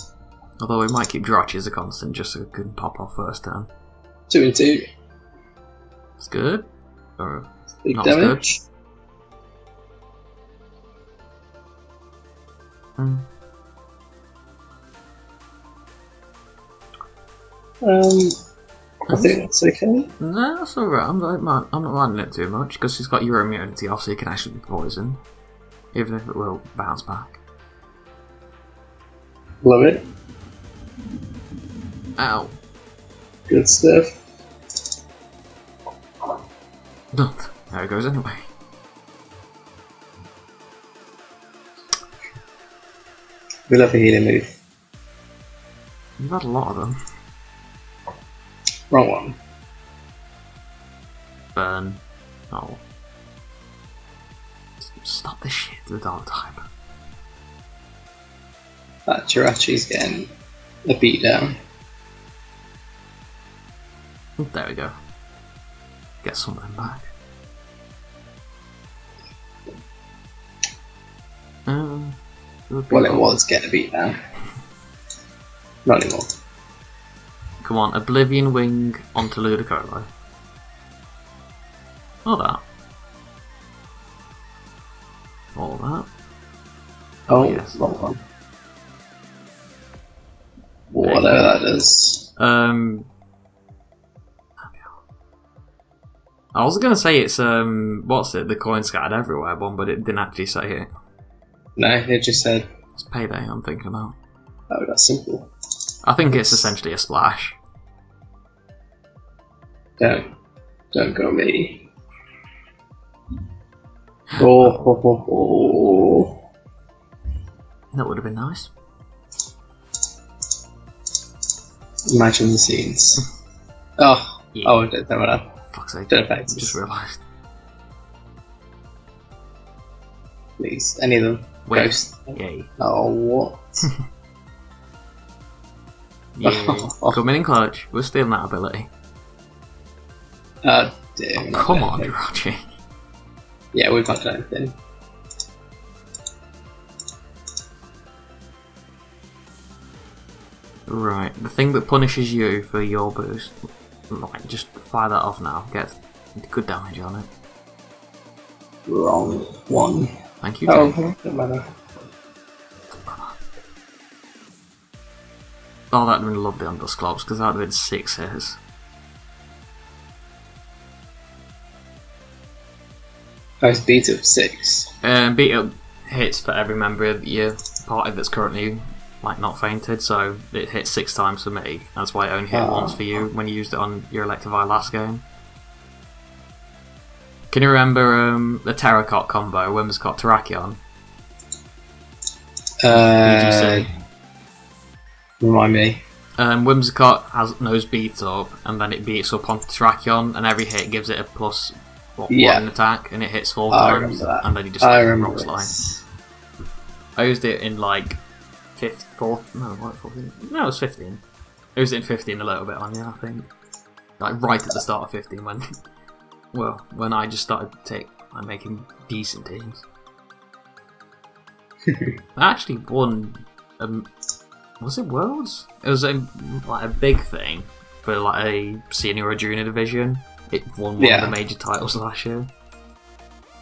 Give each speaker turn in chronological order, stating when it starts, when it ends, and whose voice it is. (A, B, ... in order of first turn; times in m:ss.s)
0:00.6-0:03.7 A
0:04.3-0:04.8 B
0:06.2-0:06.6 A
0:07.2-0:08.4 A
0:07.8-0:08.6 B
0:13.0-0:13.2 A
0:17.8-0:18.3 B
0:19.1-0:19.4 A
0:19.1-0:20.1 B
0:20.2-0:25.2 A
0:25.9-0:27.4 A
0:29.6-0:30.0 B
0:32.2-0:32.5 A
0:33.5-0:34.1 B
0:37.1-0:38.4 A
0:43.7-0:44.5 B
0:46.2-0:47.0 A
0:48.9-0:49.4 B
0:51.6-0:52.8 A
0:54.8-0:56.6 A
0:59.1-1:00.3 B
1:00.9-1:01.5 B
1:04.4-1:04.9 A
1:06.2-1:07.1 A
1:11.7-1:12.2 A
1:12.7-1:13.3 A
1:12.9-1:14.2 B
1:15.8-1:16.3 B
1:17.6-1:20.1 A
1:22.2-1:22.6 A
1:25.6-1:26.1 A
1:27.3-1:27.8 A
1:27.3-1:28.2 B
1:30.9-1:32.3 B
1:31.0-1:31.5 A
1:32.4-1:33.1 A
1:36.6-1:40.9 A
1:41.8-1:42.6 B
1:43.0-1:44.2 A
1:44.7-1:45.5 B
1:46.0-1:47.6 A
1:46.3-1:46.6 B
1:50.9-1:51.9 B
1:54.3-1:54.8 A
1:54.4-1:56.4 B
1:57.9-1:58.7 A
2:02.1-2:03.2 B
2:04.0-2:05.5 B
2:04.6-2:04.9 A
2:05.7-2:07.2 A
2:06.1-2:06.8 B
2:10.6-2:13.6 B
2:11.7-2:12.7 A
2:16.4-2:18.9 A
2:16.4-2:17.2 B
2:20.6-2:22.1 B
2:21.4-2:22.6 A
2:23.7-2:24.8 B
2:30.9-2:33.6 A
2:34.1-2:37.3 A
2:38.9-2:40.1 B
2:40.4-2:41.0 A
2:40.7-2:41.6 B
2:43.1-2:43.3 A
2:45.9-2:48.6 A
2:53.6-2:54.9 B
2:55.0-3:05.2 A
3:02.5-3:03.0 B
3:07.5-3:10.8 A
3:12.8-3:13.9 B
3:12.9-3:13.9 A
3:15.4-3:16.0 B
3:16.4-3:25.7 A
3:22.3-3:22.7 B
3:23.7-3:26.0 B
3:27.2-3:28.2 A
3:28.8-3:31.2 A
3:31.8-3:33.5 A
3:34.2-3:35.6 A
3:36.5-3:39.8 A
3:42.4-3:44.1 A
3:44.8-3:52.5 A
3:51.0-3:51.4 B